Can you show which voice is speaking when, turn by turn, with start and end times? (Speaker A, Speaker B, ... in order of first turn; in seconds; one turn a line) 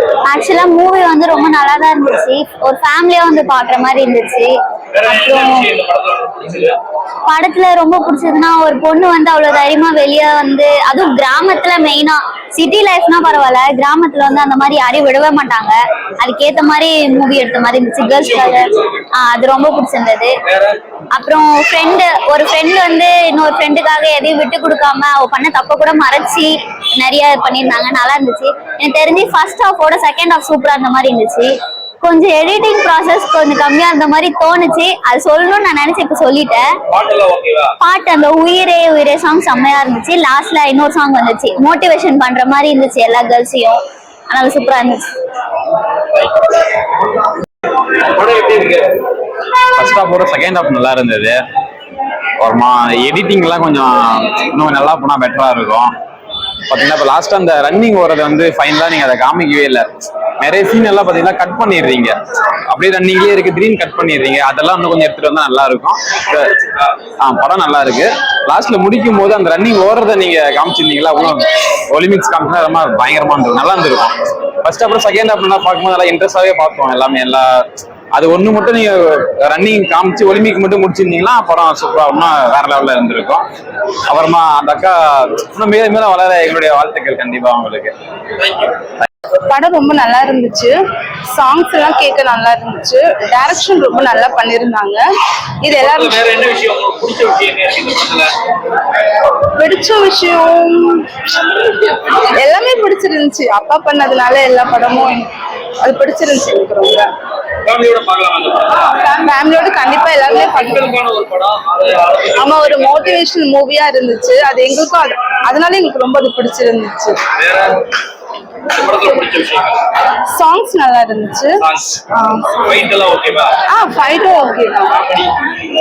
Speaker A: 0.2-4.5
Speaker B: 4.9-6.8
Speaker A: 5.1-5.6
Speaker A: 7.3-20.4
Speaker B: 18.0-18.9
Speaker A: 21.1-36.7
Speaker B: 36.9-37.8
Speaker A: 37.8-45.1
Speaker B: 46.1-46.4
Speaker B: 48.0-48.9
Speaker C: 49.7-51.5
Speaker C: 52.4-55.9
Speaker C: 56.7-66.6
Speaker C: 67.2-83.5
Speaker C: 84.1-88.0
Speaker B: 88.4-88.7
Speaker D: 89.5-90.8
Speaker D: 91.3-95.1
Speaker D: 95.6-96.2
Speaker B: 95.8-98.3
Speaker D: 99.6-101.1
Speaker D: 102.2-107.1
Speaker B: 107.6-108.9
Speaker D: 109.0-110.9
Speaker B: 110.6-113.1
Speaker D: 112.3-117.2
Speaker B: 117.4-117.9
Speaker B: 118.7-119.9
Speaker D: 120.3-121.6
Speaker B: 121.6-122.0
Speaker D: 122.1-122.5
Speaker B: 122.6-123.6
Speaker D: 123.7-125.3